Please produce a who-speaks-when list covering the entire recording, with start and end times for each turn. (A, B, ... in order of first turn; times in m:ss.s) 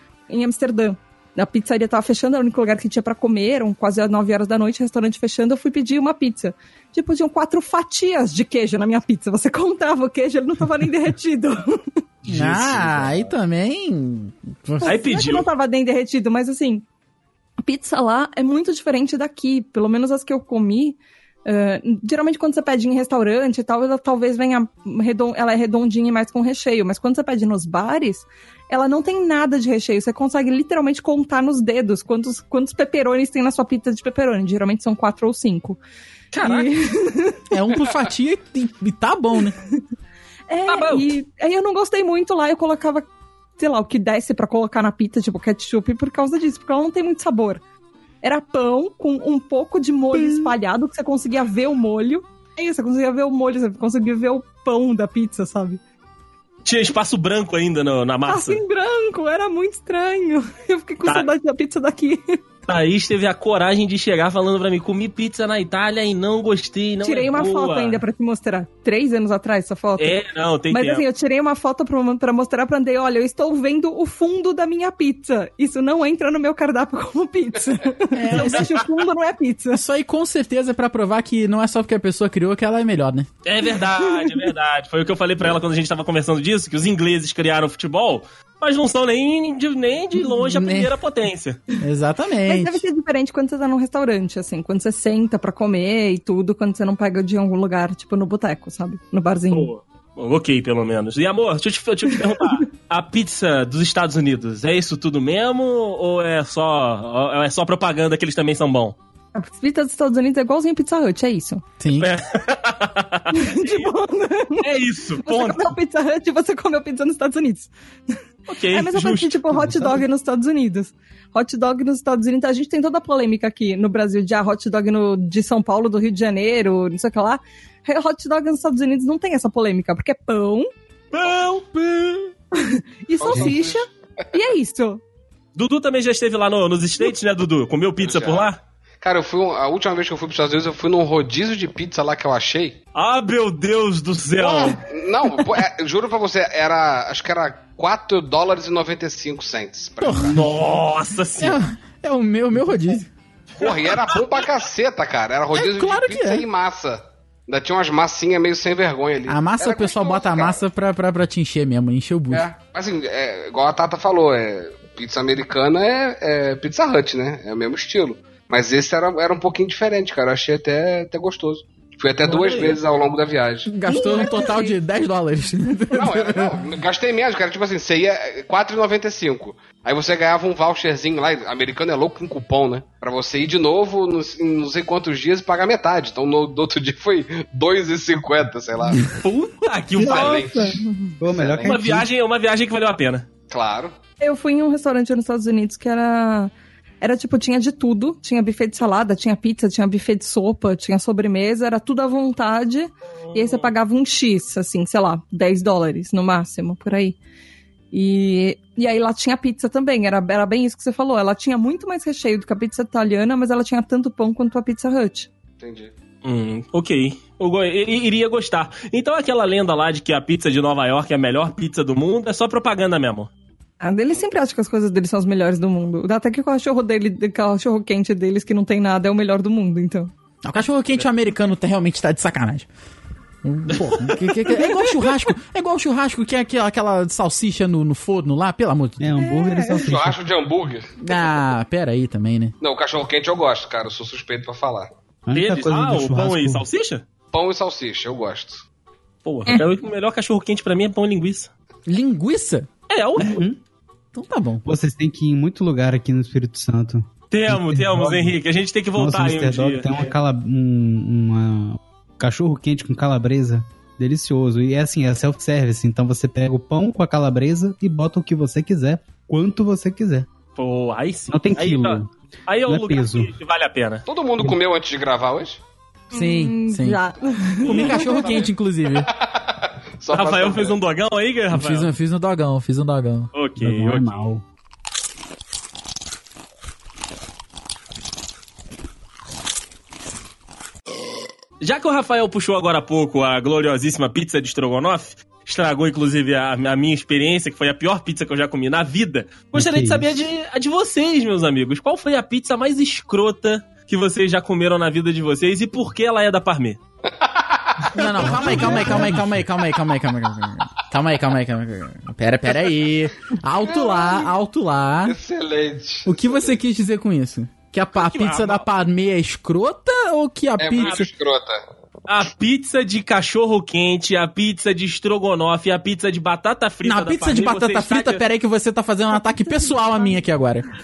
0:00.3-0:11.8 A
0:12.3-0:13.2 B
0:12.3-0:14.9 C
0:14.8-0:16.8 A
0:14.8-0:15.5 B
0:17.6-0:35.8 A
0:36.3-0:36.7 B
0:36.4-0:37.4 A
0:37.5-0:39.6 C
0:40.5-0:43.1 A
0:40.7-0:41.1 B
0:43.6-0:47.6 A
0:48.2-0:55.8 A
0:50.2-0:50.5 C
0:56.6-0:58.6 B
0:58.3-1:02.4 A
1:02.6-1:08.0 B
1:07.0-1:19.8 A
1:10.0-1:11.0 B
1:18.1-1:18.8 C
1:18.3-1:18.7 B
1:19.7-1:23.3 C
1:23.4-1:31.6 B
1:23.8-1:24.5 A
1:30.3-1:30.9 C
1:31.8-1:32.8 C
1:32.4-1:39.7 A
1:39.5-1:49.0 B
1:49.3-1:51.6 A
1:51.8-1:52.1 C
1:52.0-1:53.9 B
1:53.3-1:58.2 A
1:54.6-1:55.7 B
1:58.5-1:59.4 B
1:58.7-2:10.7 A
1:59.5-2:00.0 D
2:11.1-2:12.3 B
2:12.5-2:15.0 A
2:13.2-2:13.8 E
2:15.5-2:18.6 B
2:18.0-2:18.5 E
2:19.0-2:22.8 E
2:22.9-2:24.8 B
2:24.4-2:30.4 E
2:30.0-2:30.4 C
2:30.2-2:31.6 B
2:31.4-2:33.1 C
2:33.6-2:40.6 E
2:33.6-2:34.5 B
2:35.5-2:36.4 C
2:39.3-2:42.5 C
2:42.3-2:53.7 E
2:52.2-2:52.8 B
2:53.6-2:56.6 C
2:53.8-2:54.8 A
2:55.9-3:09.2 E
3:09.0-3:10.7 B
3:10.0-3:11.8 E
3:10.5-3:11.1 A
3:11.2-3:12.1 D
3:11.6-3:13.3 B
3:13.5-3:13.9 E
3:14.2-3:27.2 A
3:23.2-3:23.7 B
3:27.9-3:35.3 A
3:35.6-3:35.9 E
3:36.2-3:43.3 B
3:43.8-3:50.1 A
3:50.4-3:52.7 C
3:53.4-3:59.2 C
3:53.7-3:54.3 B
3:54.5-3:54.8 A
3:59.0-4:00.2 D
3:59.2-3:59.8 A
3:59.8-4:00.9 E
4:01.0-4:02.5 C
4:02.6-4:04.9 E
4:05.2-4:06.6 D
4:05.3-4:07.0 B
4:07.3-4:08.6 E
4:09.2-4:11.5 B
4:11.9-4:12.7 C
4:12.9-4:13.4 B
4:13.2-4:13.6 D
4:14.1-4:14.6 C
4:14.6-4:18.4 D
4:17.3-4:20.1 B
4:18.9-4:30.3 D
4:30.6-4:34.1 B
4:31.3-4:32.1 D
4:32.6-4:33.3 D
4:34.1-4:35.6 E
4:36.1-4:37.0 C
4:36.1-4:38.2 A
4:37.6-4:39.1 C
4:37.6-4:38.4 B
4:37.7-4:38.4 E
4:38.9-4:40.8 E
4:40.1-4:41.9 B
4:41.5-4:43.3 C
4:43.3-4:44.2 B
4:43.6-4:44.4 D
4:51.6-5:06.8 B
4:59.5-5:00.1 D
5:07.1-5:09.0 E
5:07.9-5:15.2 C
5:08.2-5:09.4 D
5:08.2-5:09.0 B
5:13.6-5:14.3 E
5:15.0-5:16.6 E
5:16.0-5:21.1 C
5:17.9-5:18.6 B
5:20.6-5:21.6 E
5:20.8-5:21.0 B
5:22.1-5:28.2 B
5:26.8-5:30.7 C
5:29.4-5:30.2 A